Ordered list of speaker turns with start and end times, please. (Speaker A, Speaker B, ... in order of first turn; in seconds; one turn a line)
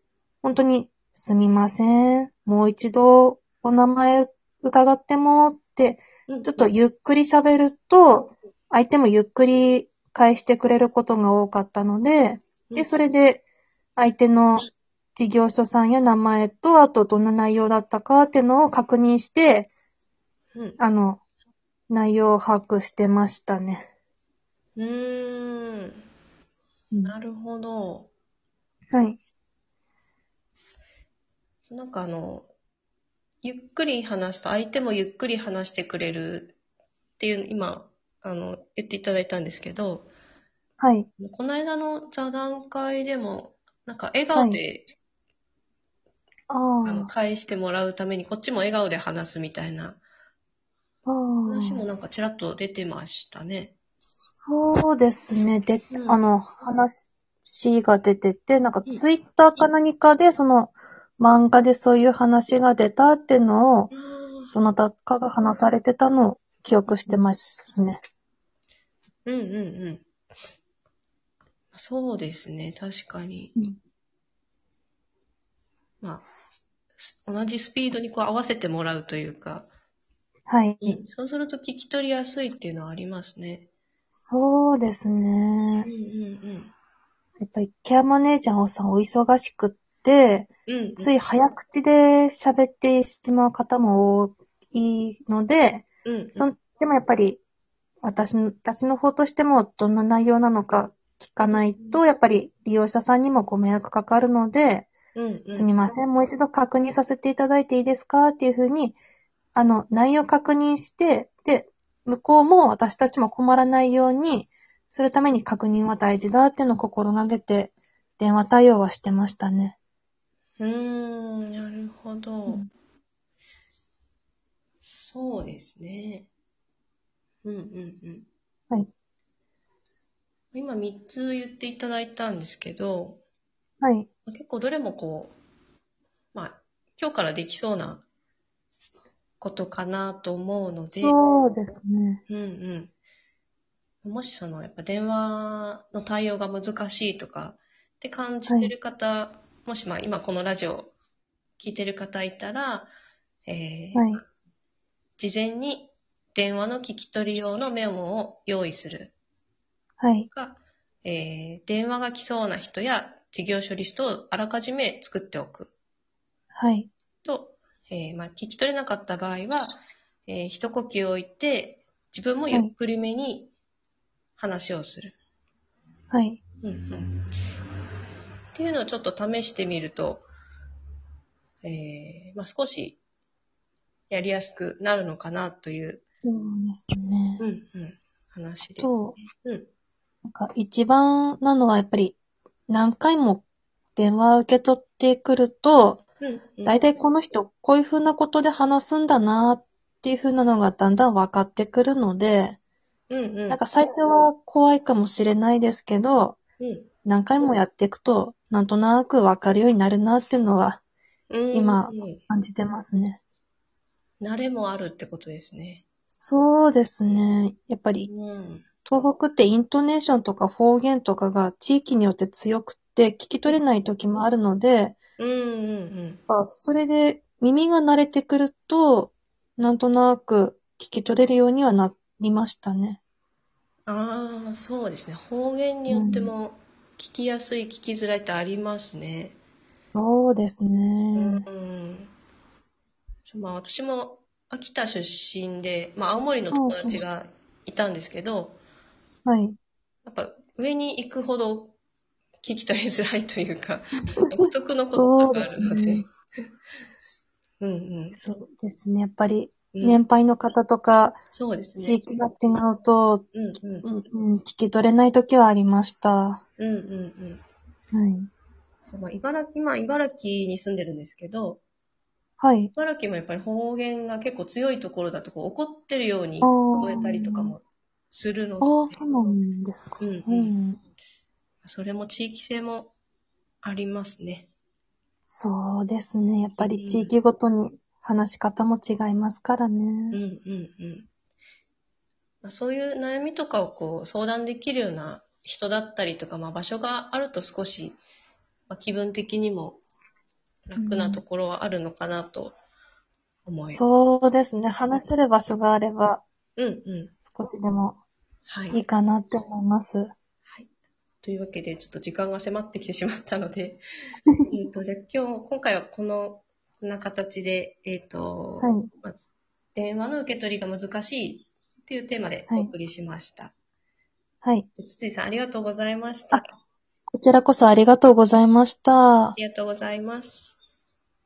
Speaker A: 0.4-13.4
Speaker B: 6.3-6.6
Speaker A: 14.0-19.7
Speaker A: 20.8-21.2
Speaker A: 21.9-23.9
Speaker B: 24.8-26.0
Speaker B: 27.0-28.1
Speaker A: 28.9-29.2
Speaker B: 31.6-32.5
Speaker B: 33.4-36.5
Speaker B: 37.2-40.1
Speaker A: 40.8-41.1
Speaker B: 41.2-44.9
Speaker A: 44.3-44.6
Speaker A: 46.5-47.1
Speaker B: 46.8-50.0
Speaker A: 51.0-51.8
Speaker B: 51.5-53.7
Speaker A: 54.0-63.9
Speaker B: 55.9-56.2
Speaker B: 63.9-64.5
Speaker A: 64.5-68.0
Speaker B: 69.2-70.0
Speaker B: 71.7-73.5
Speaker B: 76.0-76.3
Speaker B: 77.0-79.7
Speaker A: 80.5-81.0
Speaker B: 80.8-83.7
Speaker A: 84.1-85.9
Speaker B: 85.8-86.7
Speaker A: 87.4-97.4
Speaker B: 90.7-91.1
Speaker B: 96.0-96.4
Speaker A: 98.0-104.9
Speaker B: 101.5-102.0
Speaker B: 105.1-105.7
Speaker A: 105.5-109.0
Speaker A: 109.5-119.8
Speaker B: 120.6-122.6
Speaker B: 124.8-126.3
Speaker B: 127.4-128.3
Speaker B: 130.5-133.2
Speaker A: 133.8-134.1
Speaker B: 134.3-135.4
Speaker B: 136.3-138.1
Speaker B: 139.4-141.1
Speaker A: 140.9-142.2
Speaker B: 142.3-142.9
Speaker B: 144.0-150.9
Speaker A: 148.5-148.7
Speaker B: 151.6-152.9
Speaker B: 153.4-154.2
Speaker A: 153.9-154.2
Speaker B: 155.2-159.1
Speaker A: 160.0-160.3
Speaker B: 160.3-165.7
Speaker A: 166.6-166.9
Speaker B: 167.2-173.5
Speaker B: 174.4-175.2
Speaker A: 176.1-176.4
Speaker B: 176.6-177.2
Speaker B: 178.5-180.3
Speaker B: 181.6-183.0
Speaker B: 184.1-186.0
Speaker A: 186.2-187.4
Speaker B: 187.4-189.7
Speaker A: 188.8-189.2
Speaker A: 190.2-192.2
Speaker A: 192.7-193.4
Speaker A: 193.9-196.0
Speaker B: 196.2-196.8
Speaker A: 196.6-202.6
Speaker B: 203.1-203.6
Speaker A: 203.5-206.4
Speaker B: 206.6-206.9
Speaker A: 207.1-210.8
Speaker B: 211.3-212.2
Speaker A: 211.5-213.2
Speaker B: 214.2-215.8
Speaker A: 216.2-218.1
Speaker B: 218.1-218.7
Speaker A: 218.8-224.9
Speaker B: 225.2-226.2
Speaker A: 226.3-233.0
Speaker B: 233.9-239.4
Speaker A: 235.9-236.3
Speaker A: 239.9-241.4
Speaker B: 241.1-242.1
Speaker B: 243.2-248.6
Speaker A: 246.5-247.0
Speaker A: 249.2-249.6
Speaker B: 250.1-251.8
Speaker B: 252.4-256.1
Speaker A: 254.9-256.1
Speaker B: 257.6-258.2
Speaker A: 258.1-261.2
Speaker B: 259.7-260.0
Speaker B: 261.3-262.0
Speaker A: 261.8-263.2
Speaker B: 263.3-263.9
Speaker A: 263.8-266.4
Speaker B: 266.6-267.4
Speaker A: 267.9-268.3
Speaker B: 268.8-271.6
Speaker A: 272.4-272.7
Speaker B: 272.7-279.0
Speaker A: 276.4-277.6
Speaker A: 278.6-280.8
Speaker B: 280.0-280.6
Speaker B: 281.6-282.9
Speaker B: 283.6-284.5
Speaker A: 285.3-290.2
Speaker B: 286.6-287.1
Speaker B: 290.1-291.1
Speaker B: 292.4-298.0
Speaker B: 298.7-299.8
Speaker B: 300.7-302.6
Speaker A: 300.8-301.2
Speaker B: 303.4-303.8
Speaker A: 303.7-306.2
Speaker B: 306.6-307.1
Speaker A: 307.3-308.0
Speaker B: 308.5-308.8
Speaker A: 308.7-310.1
Speaker B: 311.2-313.8
Speaker B: 314.5-319.2
Speaker A: 318.6-318.9
Speaker B: 319.7-323.5
Speaker B: 324.8-326.5
Speaker A: 327.1-329.4
Speaker B: 329.3-330.6